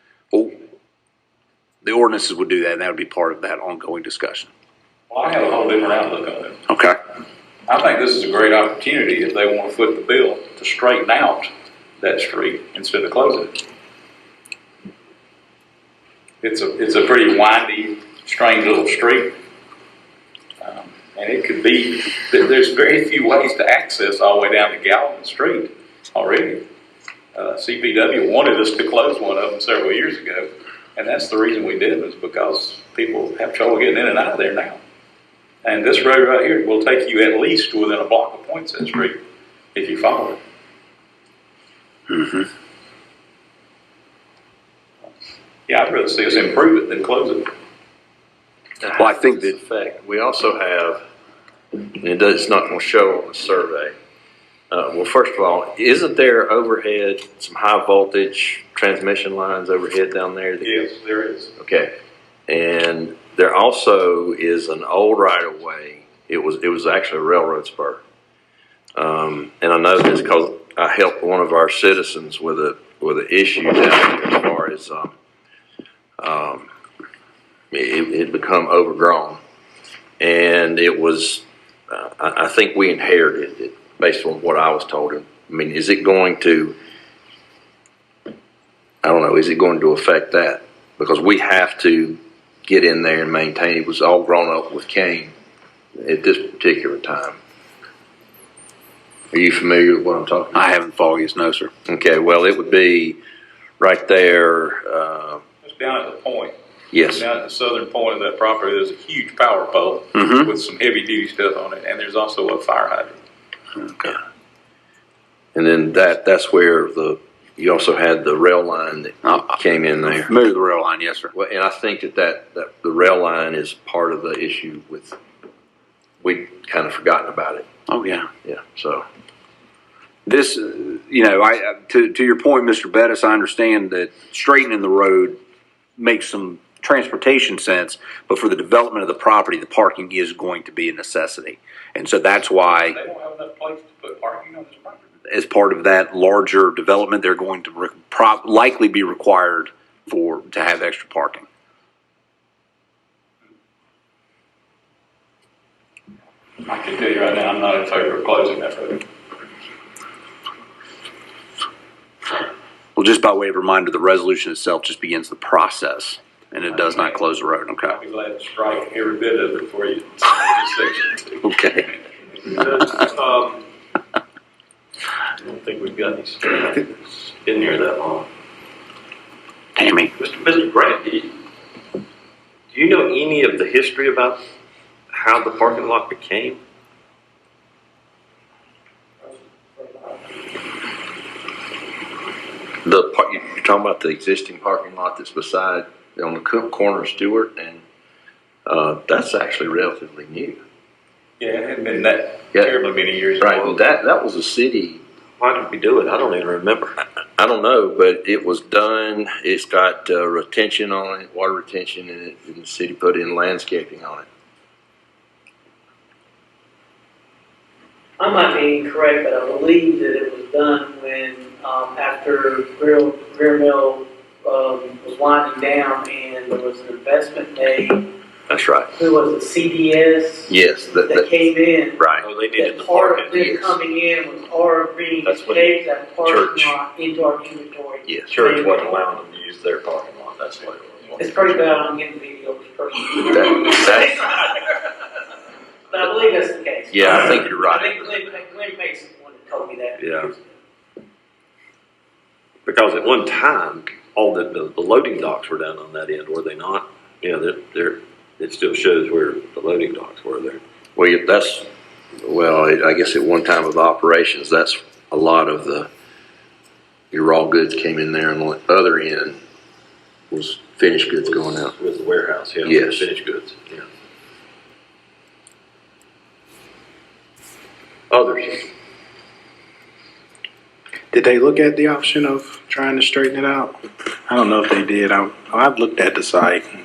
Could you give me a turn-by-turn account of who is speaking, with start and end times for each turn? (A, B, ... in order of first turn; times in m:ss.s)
0:01.8-0:04.5 A
0:05.1-0:06.6 B
0:06.7-0:07.0 A
0:07.7-0:13.6 B
0:16.4-0:19.4 B
0:20.6-0:26.6 B
0:27.4-0:34.8 B
0:35.6-0:39.2 B
0:39.8-0:40.4 B
0:42.1-0:42.5 A
0:45.7-0:47.5 B
0:48.8-0:51.0 C
0:49.0-0:49.5 A
0:51.9-0:53.9 C
0:54.7-1:00.8 C
1:00.6-1:01.5 B
1:01.6-1:02.0 C
1:02.5-1:08.0 C
1:09.0-1:15.2 C
1:16.2-1:16.7 C
1:17.7-1:19.4 C
1:20.2-1:26.8 C
1:29.0-1:35.3 C
1:36.0-1:37.4 C
1:39.3-1:40.7 C
1:40.5-1:41.7 A
1:41.9-1:43.2 C
1:43.8-1:45.4 C
1:45.6-1:46.6 B
1:46.9-1:47.3 C
1:47.1-1:53.2 B
1:50.2-1:50.5 A
1:53.8-1:54.1 A
1:55.6-2:00.3 C
2:00.3-2:01.3 A
2:01.3-2:05.2 C
2:06.2-2:07.7 C
2:07.9-2:08.3 A
2:08.4-2:09.0 C
2:10.3-2:15.4 A
2:16.0-2:23.0 A
2:22.7-2:25.1 B
2:25.3-2:31.4 A
2:36.6-2:39.1 B
2:43.0-2:48.0 A
2:46.7-2:47.2 B
2:47.8-2:51.7 B
2:51.4-2:51.9 A
2:52.5-2:53.6 D
2:55.4-2:58.3 D
2:59.8-3:00.1 A
3:00.2-3:01.4 D
3:02.7-3:04.4 D
3:05.1-3:06.6 D
3:09.2-3:10.3 E
3:12.8-3:17.8 C
3:18.7-3:20.6 C
3:21.4-3:23.6 B
3:23.4-3:25.0 C
3:25.4-3:27.0 D
3:27.4-3:34.3 C
3:38.2-3:48.1 E
3:48.5-3:49.0 C
3:49.0-3:58.9 E
3:50.5-3:51.3 C
3:52.0-3:52.2 C
3:52.2-3:53.7 D
3:55.2-3:56.8 D
3:58.1-3:58.3 C
3:58.3-4:01.6 D
4:01.2-4:04.7 E
4:03.3-4:04.5 C
4:05.9-4:10.6 E
4:06.9-4:08.2 C
4:10.0-4:10.3 D
4:12.7-4:20.6 D
4:21.0-4:25.9 C
4:27.1-4:29.4 C
4:30.3-4:31.8 C
4:31.2-4:33.9 D
4:32.6-4:33.1 C
4:38.1-4:38.7 D
4:41.1-4:43.7 F
4:44.3-4:46.6 F